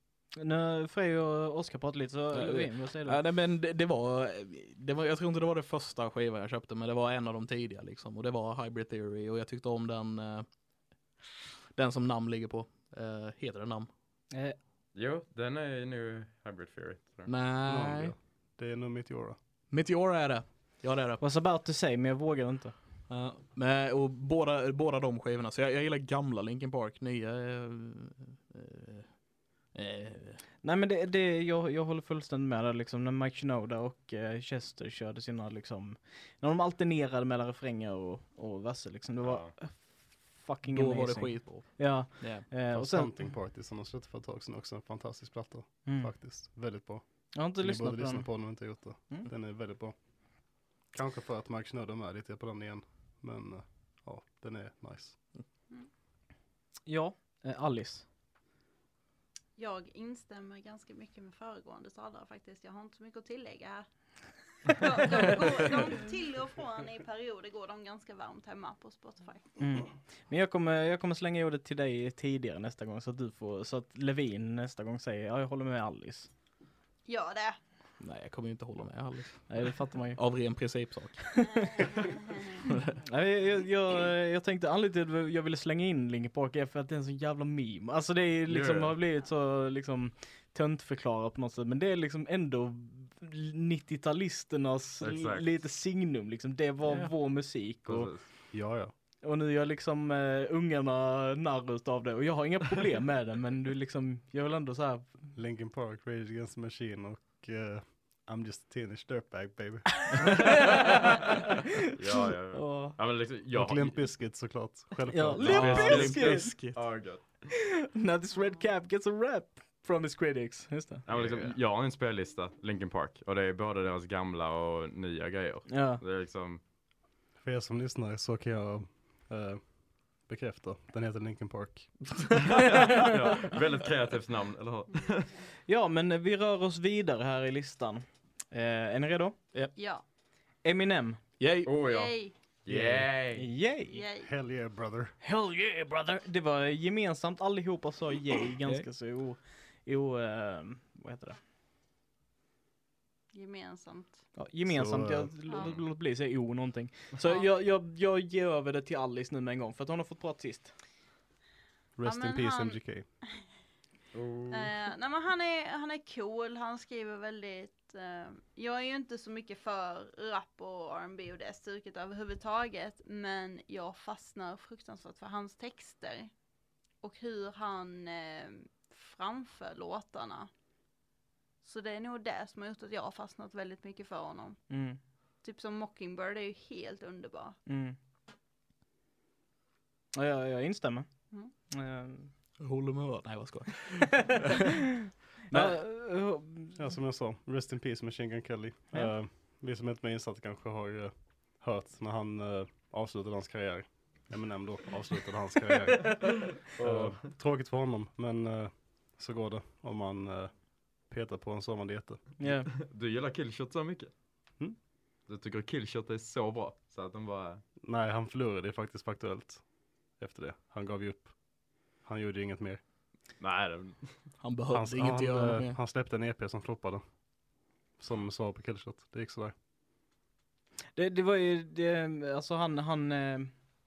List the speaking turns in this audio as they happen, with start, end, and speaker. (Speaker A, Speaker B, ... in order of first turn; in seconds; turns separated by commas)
Speaker A: 0.4-3.2, Speaker B: 2.3-10.5, Speaker B: 11.7-13.9, Speaker A: 14.3-14.6, Speaker C: 14.9-17.4, Speaker B: 17.3-18.1, Speaker D: 17.6-19.4, Speaker B: 19.7-21.2, Speaker A: 21.2-22.8, Speaker B: 23.1-29.2, Speaker B: 29.7-30.4, Speaker A: 30.6-43.3, Speaker C: 39.2-39.5, Speaker B: 40.7-42.5, Speaker D: 42.6-55.3, Speaker A: 45.9-46.1, Speaker A: 47.3-49.3, Speaker A: 56.9-58.1, Speaker E: 59.6-63.9, Speaker E: 64.6-69.4, Speaker A: 69.6-76.3, Speaker E: 77.1-77.6, Speaker B: 78.0-81.2, Speaker A: 79.5-80.2, Speaker A: 81.4-81.9, Speaker E: 81.5-82.7, Speaker B: 82.7-83.0, Speaker A: 83.0-98.5, Speaker C: 88.5-89.0, Speaker C: 95.0-95.6, Speaker B: 96.9-97.1, Speaker C: 97.8-98.3, Speaker D: 98.5-98.9, Speaker A: 99.2-105.3, Speaker D: 105.3-110.8, Speaker A: 110.1-111.2, Speaker C: 111.9-114.2, Speaker A: 112.5-113.0, Speaker D: 113.5-115.9, Speaker A: 115.1-116.6, Speaker B: 115.4-116.8, Speaker C: 115.5-117.5, Speaker A: 117.5-121.1, Speaker C: 121.1-126.6, Speaker B: 121.1-121.5, Speaker A: 125.7-126.0, Speaker D: 127.4-132.4, Speaker C: 132.6-135.4, Speaker A: 135.7-139.4, Speaker E: 139.8-140.0, Speaker A: 140.6-141.2, Speaker B: 141.4-141.7, Speaker C: 141.7-143.5, Speaker E: 141.8-142.3, Speaker D: 142.7-143.0, Speaker A: 143.4-144.0, Speaker E: 143.9-144.3, Speaker D: 144.2-145.2, Speaker A: 145.2-151.4, Speaker E: 153.3-154.3, Speaker A: 154.3-160.7, Speaker D: 154.7-155.5, Speaker C: 155.6-155.8, Speaker D: 162.0-163.1, Speaker E: 162.1-162.8, Speaker C: 164.1-164.7, Speaker E: 164.5-176.4, Speaker E: 177.0-180.5, Speaker E: 181.6-184.8, Speaker A: 184.7-185.0, Speaker E: 185.4-187.6, Speaker A: 187.7-188.0, Speaker A: 190.2-192.3, Speaker B: 192.6-194.6, Speaker A: 194.2-194.6, Speaker A: 195.5-196.8, Speaker B: 195.5-195.8, Speaker D: 196.8-212.4, Speaker C: 206.1-207.3, Speaker A: 212.4-212.7, Speaker C: 212.5-214.1, Speaker C: 215.3-217.6, Speaker D: 217.8-222.8, Speaker C: 223.4-224.3, Speaker B: 224.4-225.8, Speaker D: 224.7-227.0, Speaker D: 228.0-229.5, Speaker A: 230.9-233.6